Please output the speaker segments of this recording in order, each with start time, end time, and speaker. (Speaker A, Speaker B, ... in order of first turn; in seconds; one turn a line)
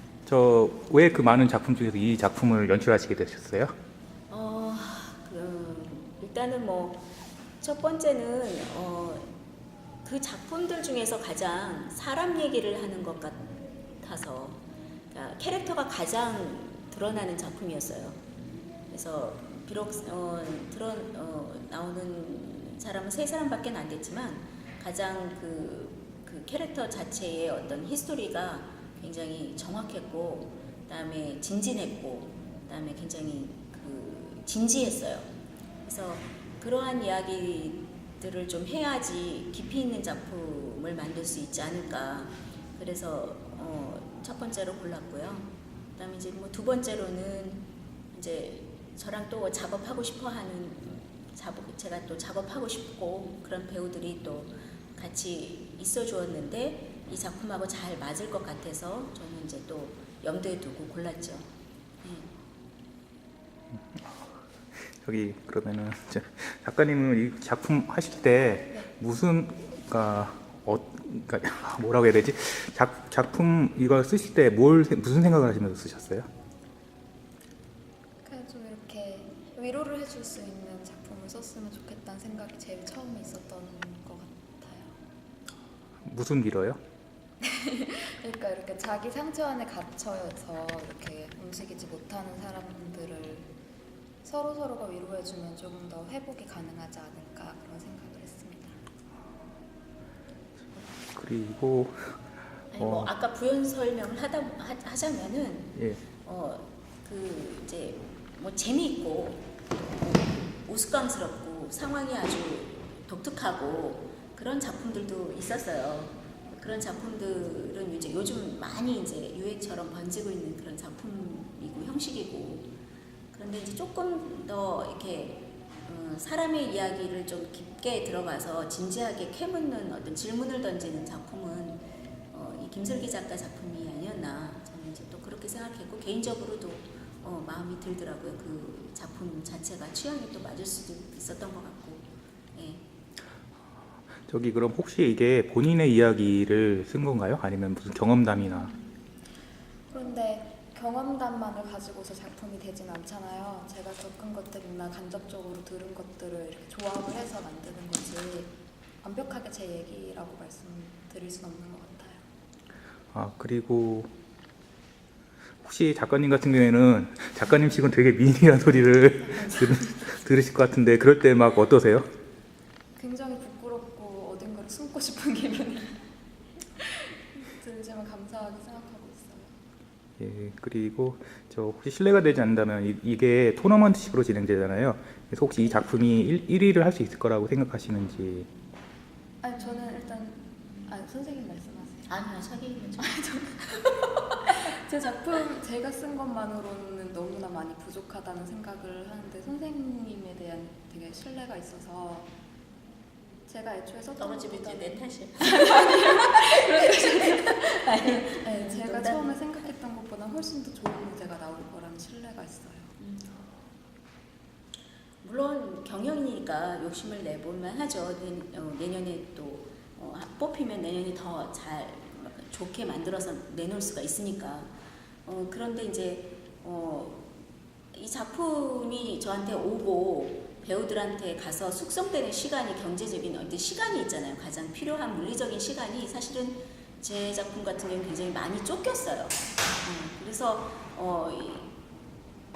Speaker A: 0.2-3.7
Speaker B: 4.3-9.3
Speaker B: 10.0-18.2
Speaker B: 18.9-35.3
Speaker B: 35.8-61.5
Speaker B: 62.0-62.3
Speaker A: 63.7-76.3
Speaker C: 78.2-84.9
Speaker A: 86.0-86.8
Speaker C: 87.4-93.5
Speaker C: 94.2-98.8
Speaker A: 100.9-102.2
Speaker B: 102.7-122.7
Speaker A: 102.8-103.1
Speaker A: 105.8-106.0
Speaker B: 123.3-142.8
Speaker A: 144.2-148.7
Speaker C: 149.9-162.2
Speaker A: 163.1-164.1
Speaker A: 165.6-172.1
Speaker C: 172.9-176.0
Speaker C: 176.8-179.5
Speaker A: 180.2-188.5
Speaker C: 189.4-192.1
Speaker B: 192.1-194.7
Speaker C: 194.7-202.3
Speaker C: 203.4-212.9
Speaker B: 204.2-209.4
Speaker B: 213.0-213.5
Speaker B: 215.2-224.7
Speaker B: 225.2-227.3
Speaker B: 227.9-241.7